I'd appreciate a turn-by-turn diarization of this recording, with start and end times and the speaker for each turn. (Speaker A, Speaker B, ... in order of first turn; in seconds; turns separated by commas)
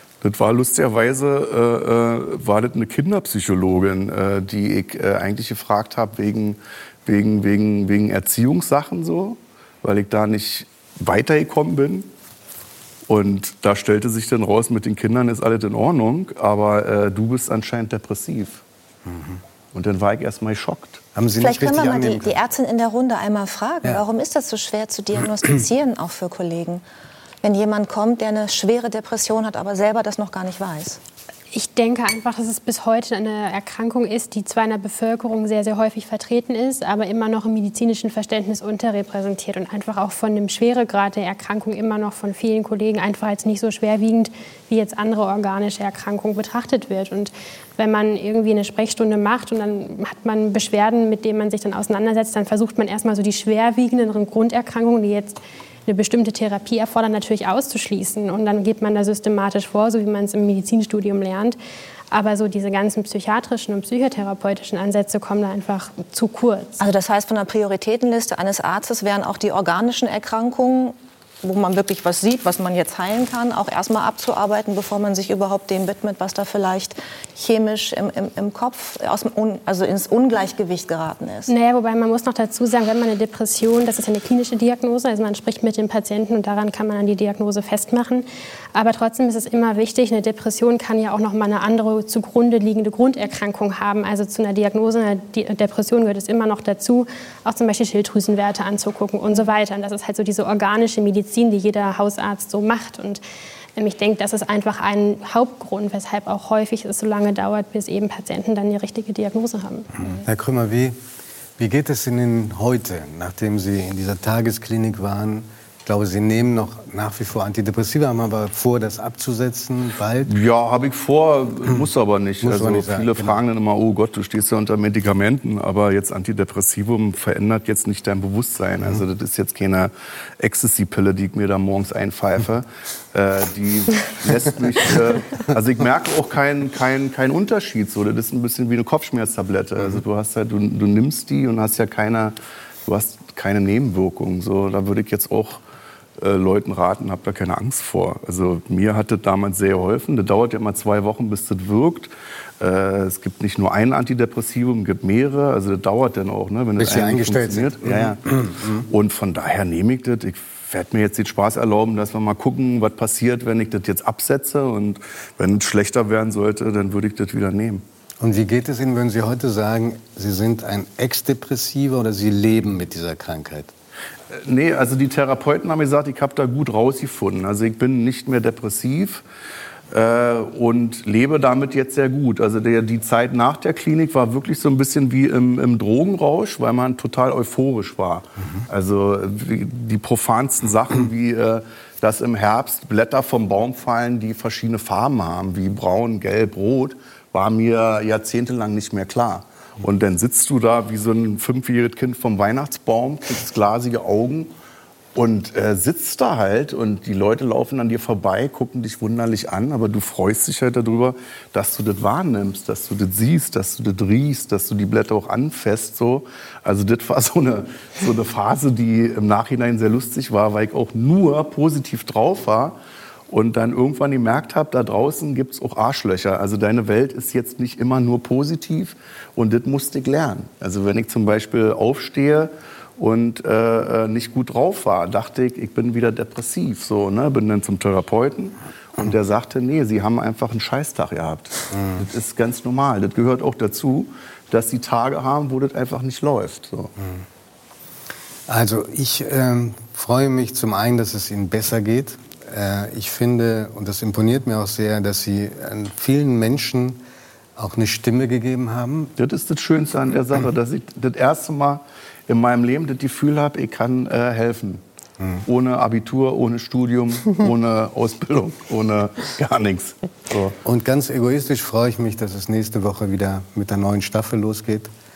Speaker A: 0.2-12.1, Speaker A: 13.1-18.6, Speaker B: 19.1-19.4, Speaker A: 19.7-21.0, Speaker B: 21.1-22.4, Speaker C: 21.4-26.8, Speaker C: 27.4-31.0, Speaker D: 31.5-61.6, Speaker D: 62.1-66.8, Speaker C: 66.8-81.5, Speaker D: 81.5-103.2, Speaker D: 103.8-109.9, Speaker B: 110.0-111.0, Speaker B: 111.6-120.3, Speaker A: 120.2-142.3, Speaker B: 122.4-123.4, Speaker A: 142.8-145.6, Speaker A: 146.2-167.8, Speaker B: 156.8-158.8, Speaker B: 168.2-173.7, Speaker A: 174.3-179.2, Speaker A: 179.9-204.5, Speaker A: 205.1-222.8, Speaker A: 223.3-246.9, Speaker B: 241.7-242.0, Speaker B: 248.5-257.0, Speaker B: 257.6-259.1, Speaker A: 259.2-264.8, Speaker B: 265.2-265.4, Speaker A: 265.4-270.5, Speaker B: 270.6-274.9